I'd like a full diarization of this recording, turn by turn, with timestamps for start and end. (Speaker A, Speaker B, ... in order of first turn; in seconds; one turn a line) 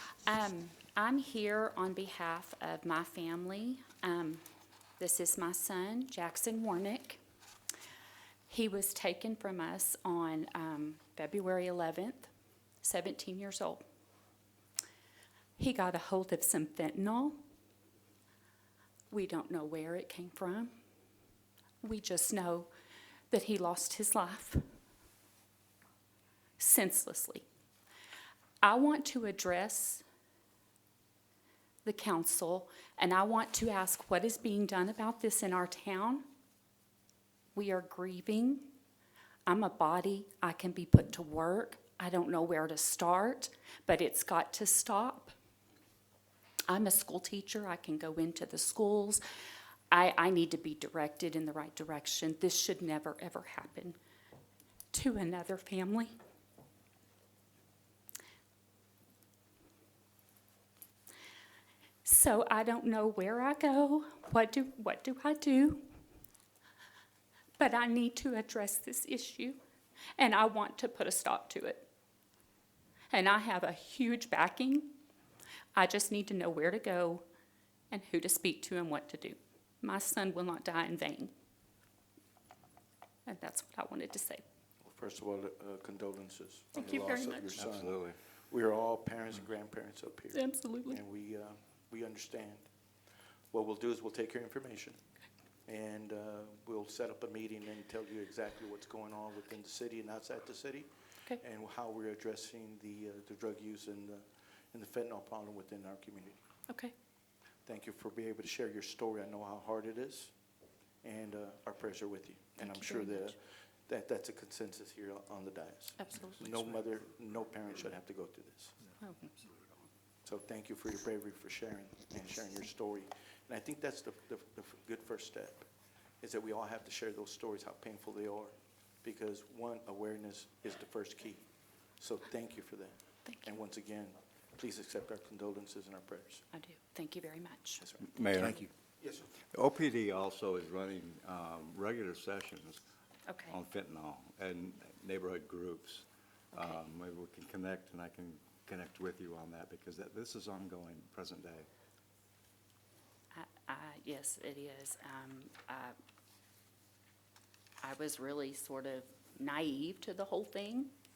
Speaker A: 0.2-4.4
Speaker A: 5.0-7.2
Speaker A: 8.5-12.3
Speaker A: 12.8-13.8
Speaker A: 15.6-17.4
Speaker A: 19.1-20.7
Speaker A: 21.8-22.7
Speaker A: 23.3-24.6
Speaker A: 26.6-27.4
Speaker A: 28.6-30.0
Speaker A: 31.8-36.2
Speaker A: 37.5-38.7
Speaker A: 39.5-45.3
Speaker A: 46.7-49.2
Speaker A: 49.9-54.0
Speaker A: 54.9-56.1
Speaker A: 62.0-65.8
Speaker A: 67.6-69.6
Speaker A: 70.2-71.9
Speaker A: 73.1-74.9
Speaker A: 75.8-77.2
Speaker A: 77.9-81.3
Speaker A: 83.3-84.4
Speaker B: 84.8-92.7
Speaker A: 86.7-87.6
Speaker C: 87.6-88.2
Speaker A: 90.3-91.0
Speaker B: 93.5-95.0
Speaker B: 95.7-106.4
Speaker B: 107.7-110.3
Speaker B: 111.0-113.4
Speaker A: 112.6-113.3
Speaker B: 113.9-118.7
Speaker A: 116.0-116.7
Speaker A: 119.0-119.3
Speaker B: 120.2-125.7
Speaker B: 126.2-128.5
Speaker B: 129.0-131.4
Speaker B: 132.0-136.4
Speaker A: 133.2-133.5
Speaker A: 136.5-138.7
Speaker C: 138.1-138.7
Speaker B: 139.0-139.3
Speaker C: 139.5-142.8
Speaker A: 143.3-143.6
Speaker C: 143.5-151.7
Speaker A: 153.3-155.9
Speaker A: 157.8-160.9